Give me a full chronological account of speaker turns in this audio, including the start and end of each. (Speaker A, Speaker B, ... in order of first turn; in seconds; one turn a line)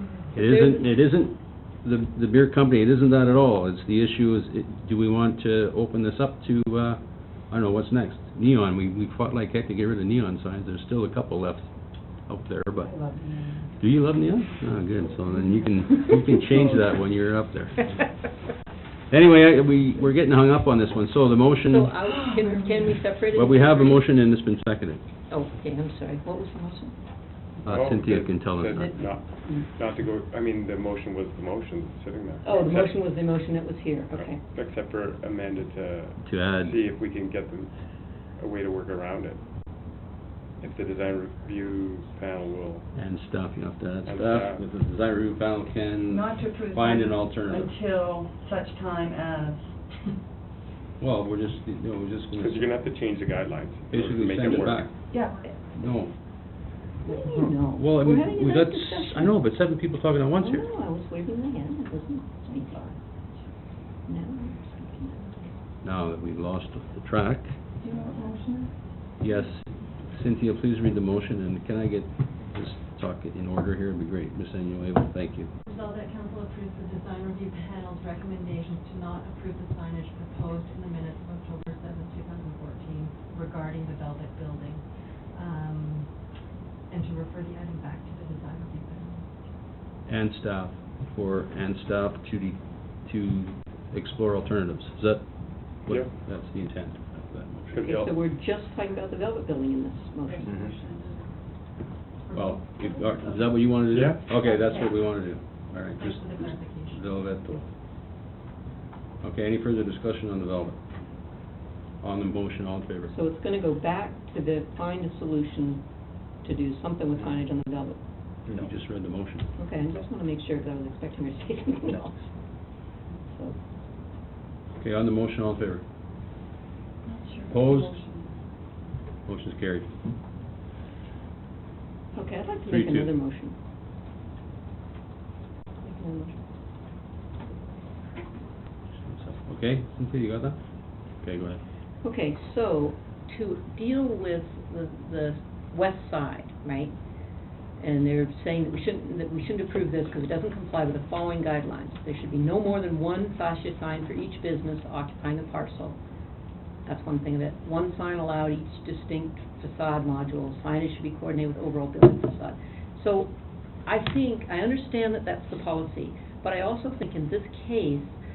Speaker A: 0.3-13.1
Speaker B: 0.4-0.9
Speaker C: 12.8-13.7
Speaker A: 13.7-18.1
Speaker A: 19.1-22.0
Speaker B: 21.6-24.1
Speaker C: 22.1-22.8
Speaker A: 23.3-25.0
Speaker B: 25.3-27.0
Speaker D: 27.6-33.0
Speaker A: 27.6-29.1
Speaker B: 28.7-29.7
Speaker B: 32.4-34.4
Speaker D: 34.1-39.4
Speaker A: 36.2-36.8
Speaker D: 40.6-42.9
Speaker A: 42.9-47.7
Speaker D: 44.0-44.6
Speaker C: 46.1-50.1
Speaker A: 51.0-52.7
Speaker D: 52.4-54.9
Speaker A: 53.9-56.2
Speaker C: 55.1-55.7
Speaker B: 57.0-59.4
Speaker A: 57.3-60.7
Speaker B: 60.4-63.0
Speaker C: 62.5-63.5
Speaker B: 64.0-65.5
Speaker A: 65.8-67.7
Speaker C: 67.8-68.8
Speaker B: 67.9-68.3
Speaker A: 69.2-75.5
Speaker E: 75.7-86.3
Speaker E: 86.9-89.4
Speaker A: 90.1-97.9
Speaker D: 97.7-98.1
Speaker B: 97.8-100.6
Speaker C: 100.2-101.4
Speaker D: 100.4-100.7
Speaker C: 102.2-103.3
Speaker A: 102.3-107.7
Speaker D: 103.9-104.2
Speaker E: 104.3-105.0
Speaker E: 106.0-107.0
Speaker A: 109.2-110.9
Speaker A: 112.0-113.1
Speaker B: 113.1-115.9
Speaker B: 116.4-118.0
Speaker A: 118.5-119.5
Speaker B: 119.5-122.3
Speaker B: 123.2-123.6
Speaker A: 124.8-125.8
Speaker C: 127.0-128.5
Speaker A: 127.5-128.0
Speaker A: 129.2-129.9
Speaker B: 132.1-133.6
Speaker A: 132.7-133.1
Speaker B: 135.8-136.5
Speaker A: 138.9-141.6
Speaker B: 142.0-147.0
Speaker B: 147.8-156.0
Speaker B: 156.8-168.2